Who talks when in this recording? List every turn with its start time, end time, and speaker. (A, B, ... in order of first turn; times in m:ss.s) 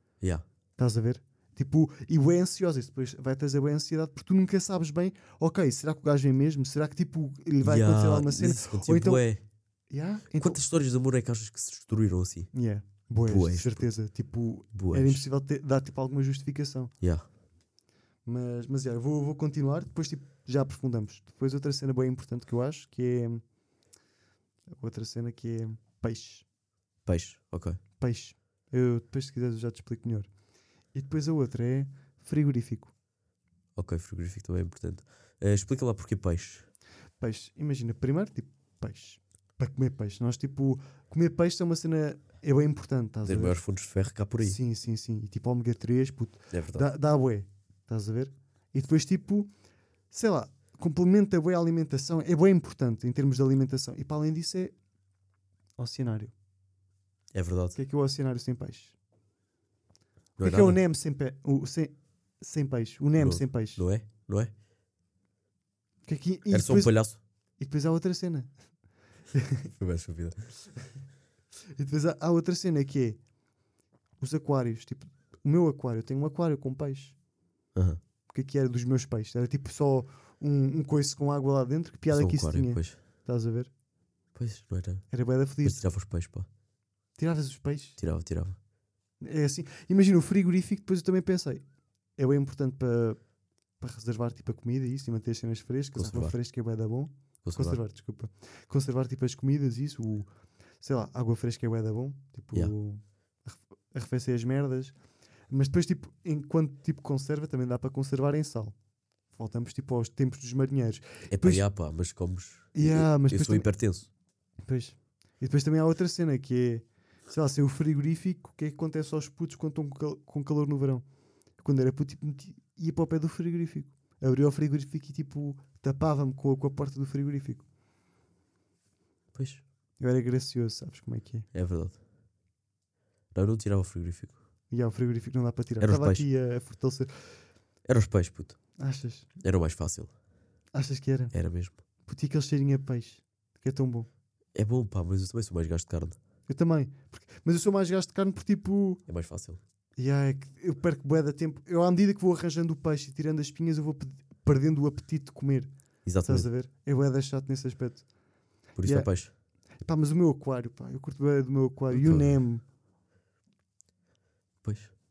0:00.8-0:09.2 A
0:07.6-0:09.4 B
0:09.9-0:10.6 A
0:10.4-0:12.5 B
0:12.5-0:16.9 A
0:13.2-0:13.9 B
0:14.7-0:15.2 B
0:17.0-0:17.3 B
0:18.2-0:23.4 A
0:24.7-0:26.4 A
0:27.0-0:27.8 B
0:28.0-0:30.3 A
0:30.9-0:32.9 A
0:33.8-0:36.7 B
0:37.2-0:43.6 A
0:43.2-0:44.6 B
0:44.4-0:49.5 A
0:46.5-0:46.9 B
0:50.1-0:54.7 A
0:55.8-0:56.3 A
0:57.3-0:57.8 B
0:57.7-0:58.9 A
1:00.4-1:00.8 B
1:00.4-1:03.8 A
1:03.2-1:04.5 B
1:06.0-1:07.0 A
1:06.5-1:07.2 B
1:07.6-1:08.5 A
1:09.3-1:09.7 A
1:09.7-1:10.5 B
1:11.7-1:13.2 A
1:14.2-1:17.1 A
1:17.7-1:18.0 B
1:18.3-1:23.7 A
1:22.1-1:23.0 B
1:24.3-1:25.0 B
1:25.1-1:25.8 A
1:25.6-1:26.5 B
1:27.2-1:28.0 A
1:28.0-1:28.6 B
1:29.2-1:31.6 A
1:32.2-1:33.2 A
1:33.8-1:40.3 A
1:35.9-1:36.3 B
1:37.4-1:37.8 B
1:40.8-1:45.0 A
1:45.5-1:48.7 A
1:49.3-1:51.6 A
1:51.3-1:54.1 B
1:52.7-1:53.7 A
1:54.6-2:01.0 A
2:01.6-2:07.6 A
2:09.3-2:09.6 B
2:10.0-2:11.5 A
2:11.5-2:12.0 B
2:13.3-2:14.3 B
2:14.7-2:17.3 A
2:15.8-2:16.2 B
2:17.9-2:18.6 B
2:18.8-2:19.3 A
2:19.4-2:20.1 B
2:20.7-2:21.3 A
2:21.3-2:21.8 B
2:22.0-2:24.1 A
2:24.5-2:26.2 B
2:26.5-2:29.0 A
2:29.1-2:29.6 B
2:30.0-2:35.7 A
2:36.0-2:36.5 B
2:36.2-2:38.0 A
2:38.8-2:39.3 B
2:38.8-2:39.1 A
2:39.8-2:42.6 A
2:41.9-2:42.3 B
2:44.6-2:44.9 B